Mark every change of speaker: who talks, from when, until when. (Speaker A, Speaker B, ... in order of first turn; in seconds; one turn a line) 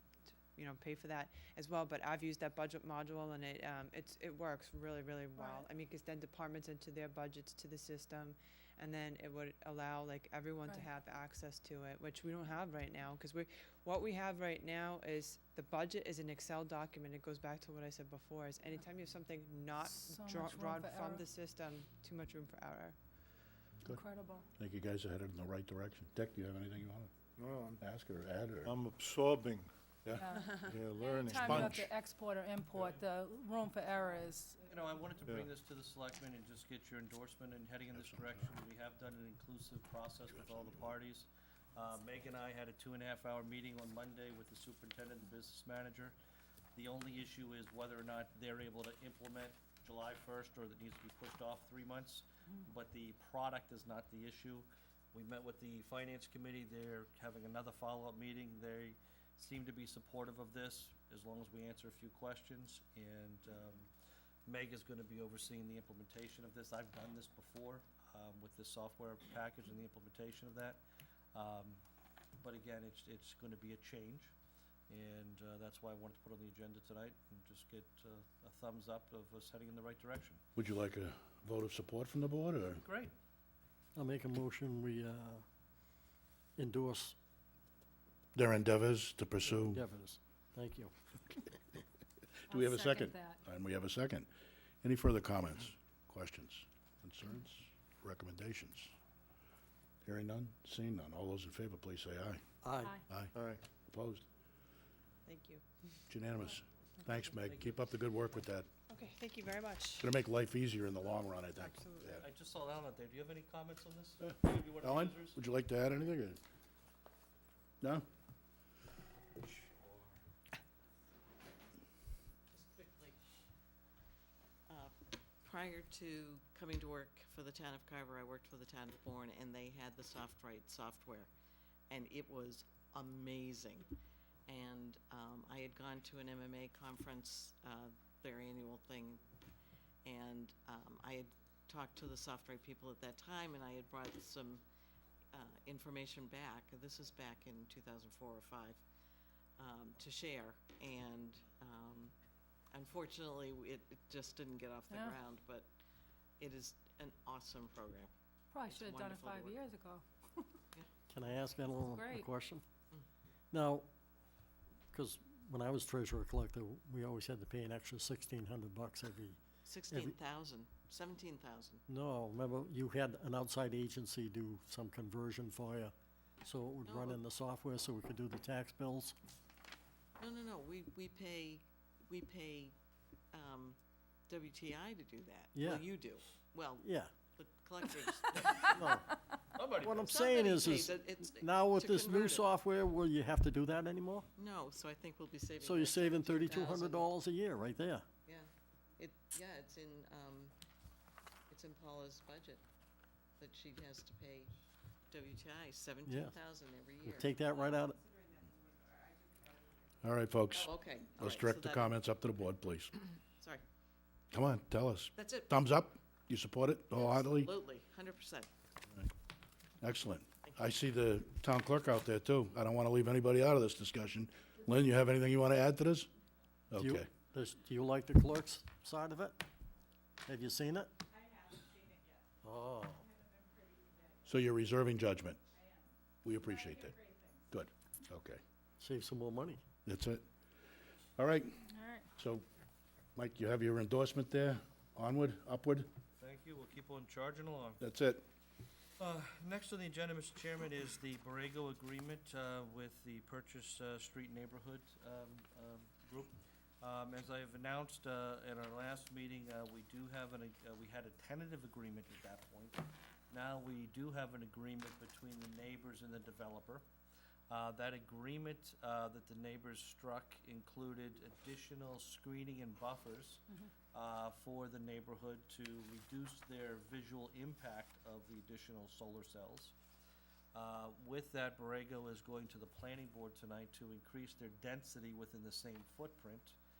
Speaker A: 0.5-22.9
Speaker B: 5.3-5.7
Speaker B: 19.8-21.2
Speaker B: 23.8-24.4
Speaker C: 24.6-27.1
Speaker D: 27.4-27.8
Speaker C: 27.8-28.8
Speaker D: 28.6-29.7
Speaker B: 30.1-34.6
Speaker D: 30.6-31.8
Speaker C: 31.3-31.9
Speaker E: 34.6-46.1
Speaker C: 37.9-38.5
Speaker C: 40.3-40.9
Speaker E: 46.7-63.9
Speaker E: 64.5-70.8
Speaker E: 71.3-71.8
Speaker E: 72.4-74.3
Speaker E: 74.9-80.4
Speaker C: 80.5-82.8
Speaker E: 82.8-83.1
Speaker F: 83.9-85.4
Speaker F: 86.6-87.1
Speaker C: 88.3-89.8
Speaker F: 89.4-90.9
Speaker C: 92.5-94.3
Speaker B: 92.5-93.4
Speaker C: 94.8-98.9
Speaker C: 100.0-102.4
Speaker F: 102.6-103.0
Speaker D: 103.3-103.6
Speaker C: 103.9-104.2
Speaker A: 105.2-105.6
Speaker C: 106.1-108.7
Speaker E: 107.4-107.9
Speaker A: 108.9-110.1
Speaker C: 110.0-112.2
Speaker A: 111.6-112.2
Speaker E: 112.1-115.4
Speaker C: 114.2-116.4
Speaker E: 119.4-120.2
Speaker G: 122.5-123.2
Speaker G: 124.7-131.3
Speaker G: 131.9-133.9
Speaker G: 134.5-139.2
Speaker G: 140.0-144.6
Speaker G: 145.3-148.8
Speaker G: 149.6-152.1
Speaker G: 152.7-155.7
Speaker B: 154.9-155.2
Speaker G: 156.4-158.1
Speaker B: 158.5-160.0
Speaker G: 158.6-159.6
Speaker F: 161.1-162.6
Speaker B: 161.9-162.3
Speaker F: 163.5-163.9
Speaker F: 164.9-170.2
Speaker G: 169.6-171.8
Speaker F: 171.9-179.1
Speaker G: 176.8-177.2
Speaker G: 180.2-182.7
Speaker G: 183.3-183.8
Speaker G: 184.3-189.0
Speaker F: 185.5-185.9
Speaker F: 186.8-187.1
Speaker F: 188.6-189.2
Speaker E: 189.5-190.1
Speaker F: 189.8-194.3
Speaker G: 190.1-192.5
Speaker G: 194.3-197.1
Speaker F: 195.6-198.0
Speaker G: 198.2-200.5
Speaker G: 201.5-202.6
Speaker G: 203.4-204.6
Speaker G: 205.1-207.3
Speaker F: 206.0-206.4
Speaker F: 207.0-208.0
Speaker A: 207.3-210.0
Speaker C: 210.0-212.9
Speaker G: 210.5-212.0
Speaker G: 213.4-213.6
Speaker C: 214.3-217.5
Speaker G: 215.2-215.5
Speaker G: 216.9-218.5
Speaker C: 219.8-226.1
Speaker C: 226.7-227.1
Speaker F: 226.8-229.4
Speaker F: 230.2-230.9
Speaker A: 231.3-231.9
Speaker F: 232.4-233.0
Speaker C: 234.2-235.4
Speaker C: 236.2-237.0
Speaker C: 237.5-238.4
Speaker F: 238.8-239.6
Speaker C: 239.8-240.2
Speaker C: 241.2-241.6
Speaker B: 241.7-242.1
Speaker C: 242.2-242.4
Speaker C: 243.2-245.9
Speaker E: 246.2-247.8
Speaker C: 247.8-248.2
Speaker E: 249.0-266.8
Speaker E: 267.5-273.4
Speaker E: 273.9-279.7
Speaker E: 280.5-286.6